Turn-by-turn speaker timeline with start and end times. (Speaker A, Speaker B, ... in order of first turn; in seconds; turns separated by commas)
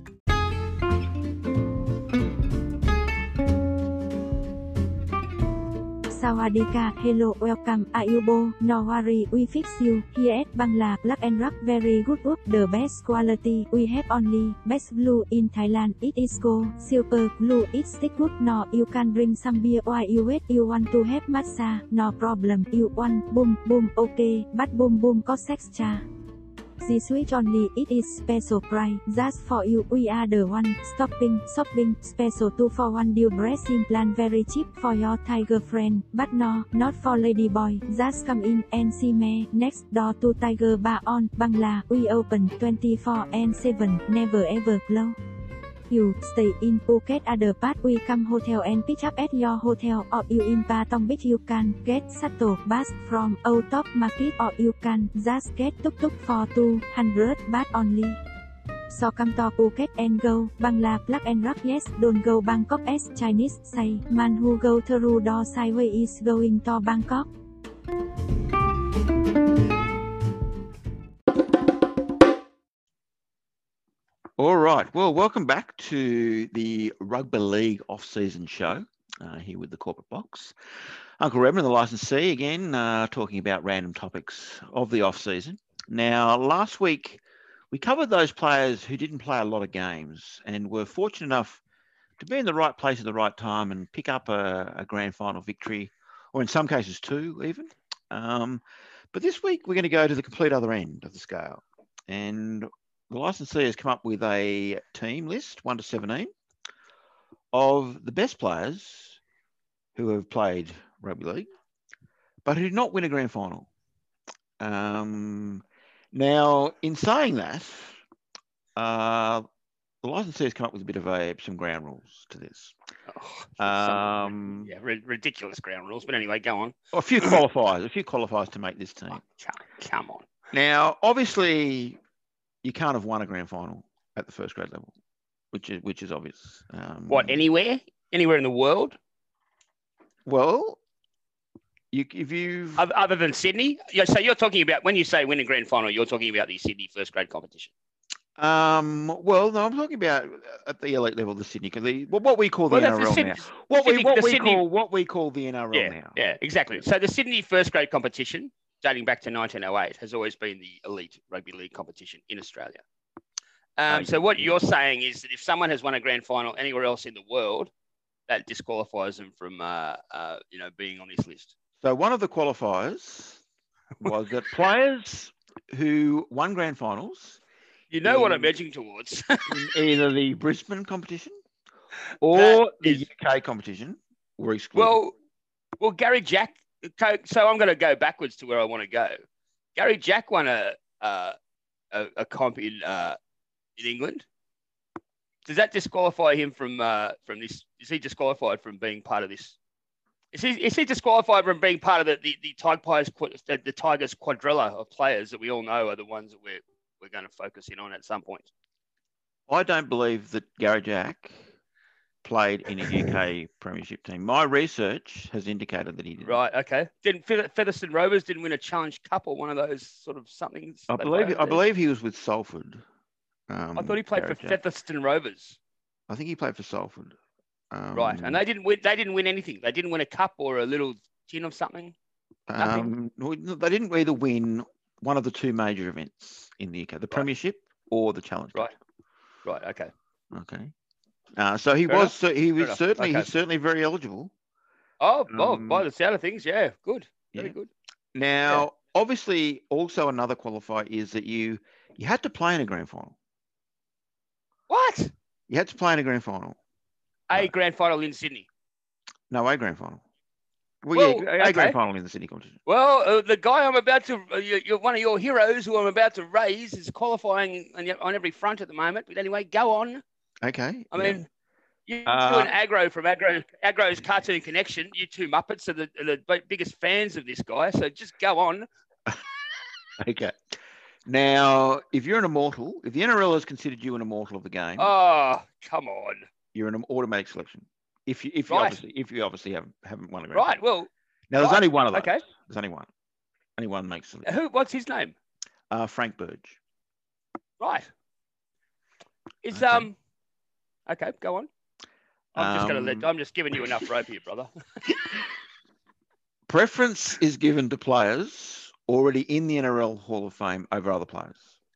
Speaker A: 6.1-26.0, Speaker A: 26.8-45.2, Speaker A: 45.9-58.2, Speaker A: 58.9-67.3, Speaker B: 74.4-80.5, Speaker B: 81.2-91.6, Speaker B: 92.2-106.3, Speaker B: 107.5-109.2, Speaker B: 110.0-111.5, Speaker B: 112.5-113.7, Speaker B: 114.6-118.0, Speaker B: 118.8-119.5, Speaker B: 120.0-122.8, Speaker C: 123.1-127.4, Speaker B: 123.6-124.7, Speaker B: 126.9-129.2, Speaker C: 129.1-130.3, Speaker B: 130.5-132.0, Speaker B: 132.6-134.9, Speaker B: 135.5-137.5, Speaker C: 137.1-139.0, Speaker B: 140.3-140.8, Speaker B: 141.9-142.8, Speaker C: 142.8-147.7, Speaker B: 148.4-156.2, Speaker C: 152.7-154.7, Speaker C: 155.7-162.8, Speaker C: 163.8-167.7, Speaker B: 163.9-164.6, Speaker C: 168.3-171.5, Speaker B: 171.8-173.4, Speaker B: 174.0-177.4, Speaker C: 177.9-179.6, Speaker B: 178.1-178.5, Speaker B: 179.5-181.4, Speaker B: 182.2-185.0, Speaker C: 182.3-183.1, Speaker C: 184.8-185.1, Speaker C: 185.8-189.2, Speaker C: 189.8-191.3, Speaker C: 191.9-193.2, Speaker C: 193.8-194.2, Speaker C: 195.4-199.6, Speaker C: 200.3-208.5, Speaker B: 209.5-211.4, Speaker B: 212.2-216.4, Speaker C: 216.2-221.6, Speaker B: 220.9-222.8, Speaker B: 223.5-224.6, Speaker C: 223.8-225.6, Speaker B: 226.1-227.2, Speaker B: 227.7-228.4, Speaker C: 227.9-231.9, Speaker B: 232.5-238.7, Speaker C: 232.6-232.9, Speaker C: 239.4-239.9, Speaker B: 240.3-240.7, Speaker B: 241.4-244.3, Speaker C: 241.9-243.3, Speaker C: 245.0-247.7, Speaker B: 245.3-245.9, Speaker B: 248.1-253.2, Speaker C: 254.7-255.1, Speaker B: 255.5-256.6, Speaker C: 257.3-258.5, Speaker B: 259.3-260.0, Speaker B: 260.8-262.6, Speaker C: 260.9-261.8, Speaker C: 262.7-270.0, Speaker B: 270.4-271.2, Speaker C: 270.9-271.3, Speaker C: 271.9-278.7, Speaker B: 272.1-272.5, Speaker B: 280.0-284.9, Speaker C: 284.8-286.3, Speaker B: 286.5-290.6, Speaker C: 288.5-288.8, Speaker C: 290.3-290.9, Speaker B: 291.3-292.9, Speaker C: 291.4-292.2, Speaker B: 293.6-294.3, Speaker C: 294.3-295.1, Speaker B: 295.7-296.6, Speaker C: 297.6-297.9, Speaker C: 299.4-299.9, Speaker B: 299.5-299.9, Speaker C: 300.9-301.5, Speaker C: 302.4-304.5, Speaker B: 302.4-303.8, Speaker B: 306.5-311.5